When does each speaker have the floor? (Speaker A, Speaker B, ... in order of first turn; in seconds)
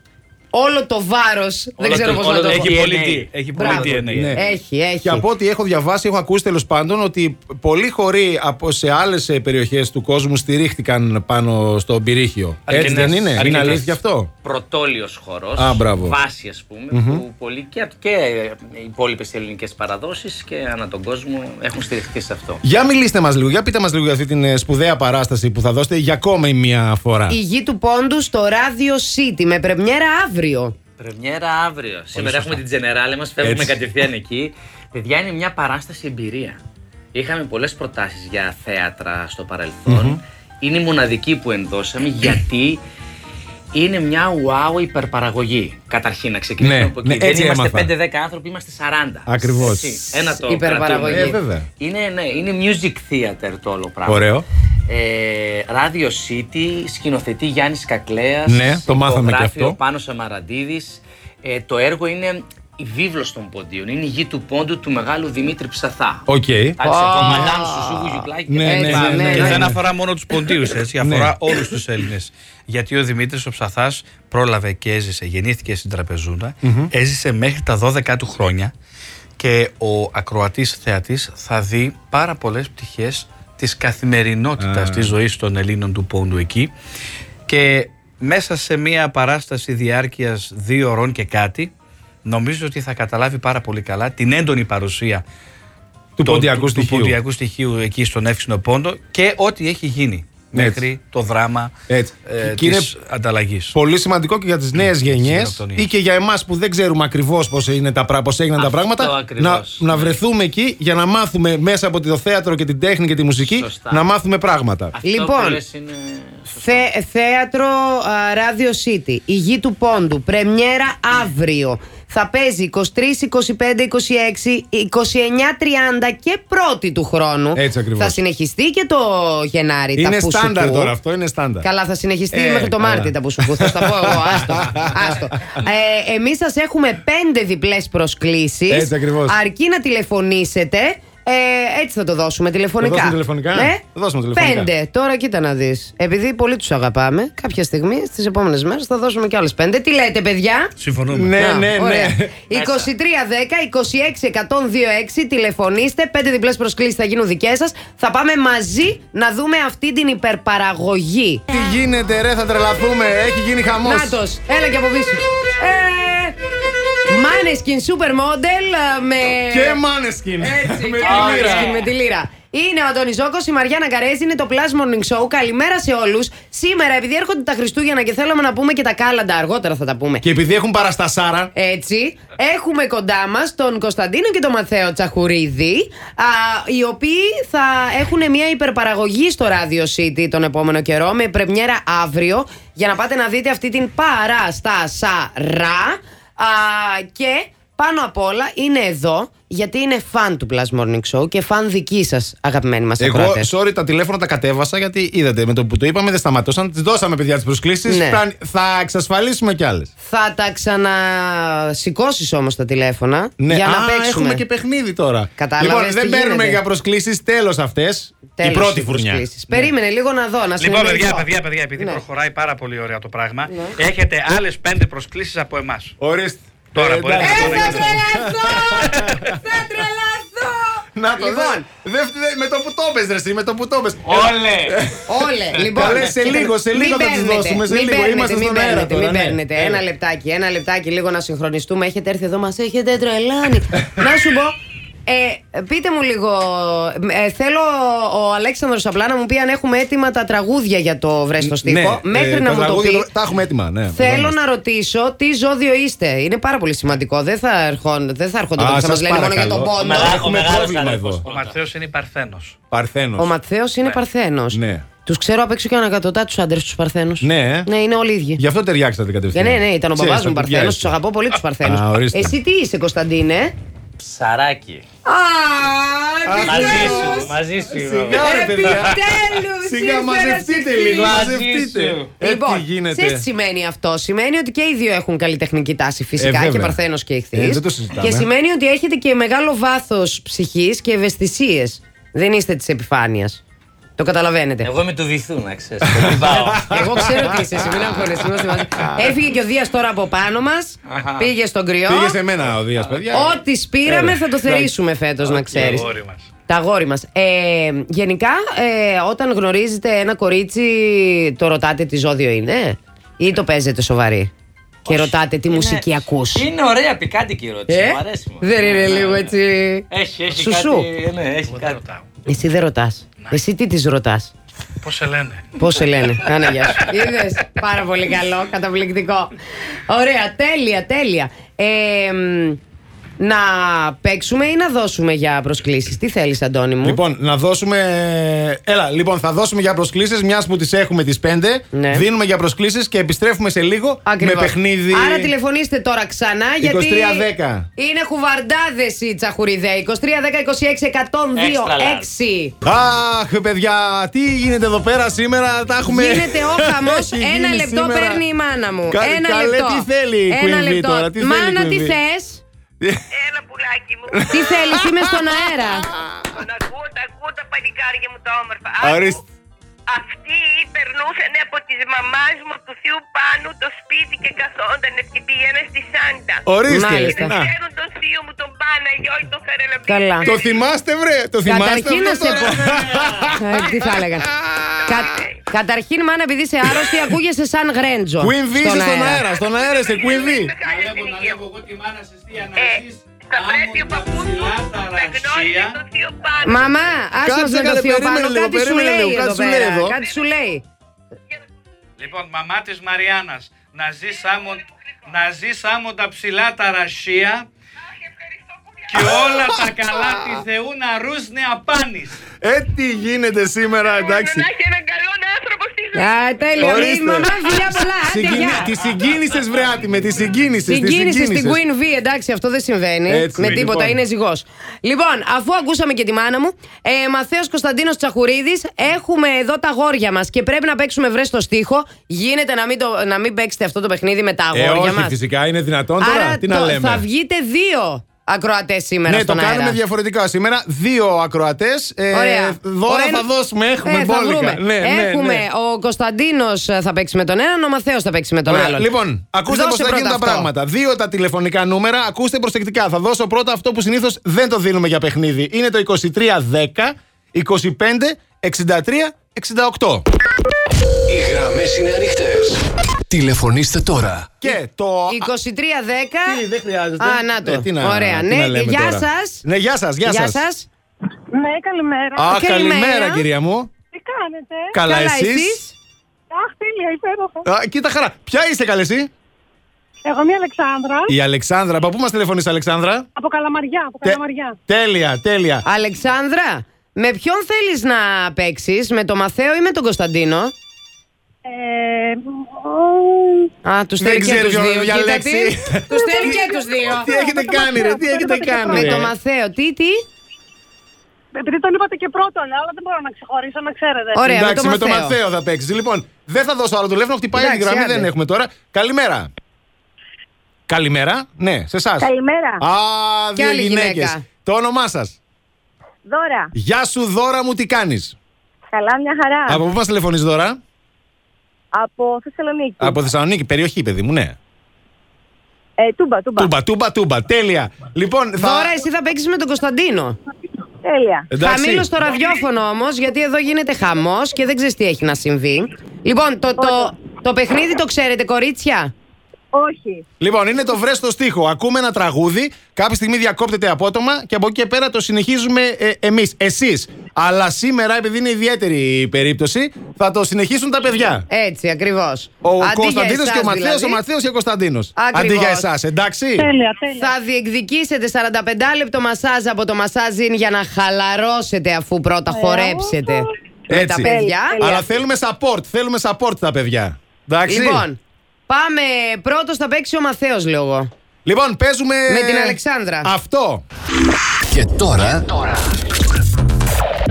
Speaker A: 0.5-2.8, 3.5-5.2, 27.3-30.7, 50.5-51.4, 66.8-69.6, 115.0-115.6, 116.5-130.9, 131.6-143.8, 144.3-150.7, 151.4-161.5, 163.8-166.3, 167.1-169.8, 170.4-180.2, 181.5-203.5, 207.9-208.2, 210.0-214.4, 215.4-216.6, 218.3-222.0, 223.5-223.7, 227.2-231.7, 235.1-244.6, 245.1-253.1, 253.9-260.2, 263.2-268.4, 269.3-273.5, 275.1-277.3, 278.1-281.2, 282.2-293.4, 294.0-294.7, 296.7-302.2, 303.1-305.9, 306.5-314.3, 314.9-316.4, 317.7-320.9, 322.2-324.3, 325.6-329.3, 329.9-332.6, 333.2-337.0, 341.7-342.1, 344.0-352.5, 355.8-362.4, 364.3-365.9, 376.7-377.3, 379.9-380.3, 381.4-382.6, 383.3-384.3, 384.9-389.2, 396.4-400.6, 415.9-418.7, 420.7-435.2, 436.0-439.8, 442.1-443.3, 443.8-448.9, 449.5-450.5, 465.1-466.4, 467.0-469.4, 470.0-470.7, 472.3-473.2, 474.8-475.7, 485.6-490.5, 493.6-497.1, 498.7-500.0, 504.1-505.2, 507.3-508.1, 513.4-514.2, 528.4-530.2, 531.4-538.9, 551.3-554.0, 555.0-555.7, 556.9-564.8, 567.5-570.9, 572.1-573.1
Speaker B: 1.8-4.2, 14.4-22.6, 31.0-36.6, 37.1-42.8, 43.7-54.3, 54.9-66.2, 66.8-69.7, 108.6-110.1, 113.4-114.0, 114.9-116.9, 152.5-152.9, 171.1-171.5, 234.0-234.8, 235.6-236.0, 259.8-261.6, 274.0-274.8, 276.4-278.3, 281.0-282.1, 294.6-297.1, 300.9-301.3, 302.7-303.3, 314.8-319.3, 319.9-321.8, 351.4-352.1
Speaker C: 1.8-4.4, 12.7-14.0, 69.0-78.7, 79.4-86.7, 87.5-91.7, 92.2-95.2, 96.2-101.7, 102.2-103.7, 104.7-105.9, 150.8-151.4, 171.0-171.9, 220.6-225.9, 226.7-228.2, 261.2-262.6, 305.3-306.3, 321.5-322.1, 324.8-325.5, 382.6-383.3, 390.6-395.8, 402.0-407.5, 408.9-412.2
Speaker D: 3.9-4.4, 5.0-14.3, 15.6-16.2, 16.9-17.2, 22.6-27.4, 32.1-32.5, 33.4-33.8, 39.9-40.2, 46.6-47.9, 49.3-50.2, 51.0-51.6, 54.0-54.5, 58.5-59.8, 66.3-67.5, 68.5-69.8, 71.0-71.5, 76.6-76.9, 84.6-85.1, 96.2-97.2, 100.5-100.8, 101.9-102.9, 103.7-114.9, 127.5-128.2, 129.9-131.7, 132.3-135.2, 138.7-139.4, 142.8-144.7, 151.1-152.3, 161.5-164.2, 169.5-171.8, 180.2-181.5, 203.0-209.9, 213.4-219.3, 226.0-229.6, 230.9-239.8, 251.4-254.3, 258.6-261.2, 262.7-263.3, 264.5-264.9, 267.2-267.7, 268.4-270.9, 271.6-272.4, 276.2-279.0, 279.6-283.2, 286.2-286.8, 287.3-288.3, 295.9-299.1, 301.9-303.3, 303.9-304.7, 336.8-345.3, 346.6-347.7, 352.6-358.2, 358.9-362.0, 362.8-363.1, 364.1-366.4, 368.8-369.2, 376.4-377.5, 380.2-385.3, 386.6-387.0, 388.2-390.5, 397.2-399.9, 409.0-410.3, 412.4-414.5, 416.6-417.3, 418.0-421.6, 423.1-424.0, 434.5-437.0, 439.1-445.4, 448.4-460.0, 464.4-465.3, 466.2-470.4, 472.1-473.7, 474.7-475.6, 477.4-479.1, 481.1-483.1, 484.0-485.6, 494.0-496.4, 496.9-499.1, 504.2-509.3, 510.7-515.2, 516.5-518.1, 519.5-520.6, 522.8-524.4, 526.4-528.7, 531.3-531.9, 540.2-551.3, 552.4-556.5, 563.7-567.9, 571.2-573.6
Speaker E: 363.1-364.8, 366.3-369.2, 369.9-376.5, 377.1-380.6, 385.0-385.3, 389.3-391.4, 392.5-392.8, 393.3-397.0, 407.9-409.2, 413.8-417.7
Speaker F: 461.1-464.3, 574.5-575.4
Speaker G: 471.3-472.4, 473.9-474.8, 476.3-477.4, 480.0-481.1, 483.1-484.6, 491.4-493.5, 495.9-499.1, 501.3-504.3, 556.4-557.1
Speaker H: 512.0-512.6, 516.0-516.5, 518.7-519.6, 521.7-523.1, 525.8-526.5, 530.8-531.3, 536.6-536.9, 539.5-540.0, 562.3-563.2, 564.0-564.9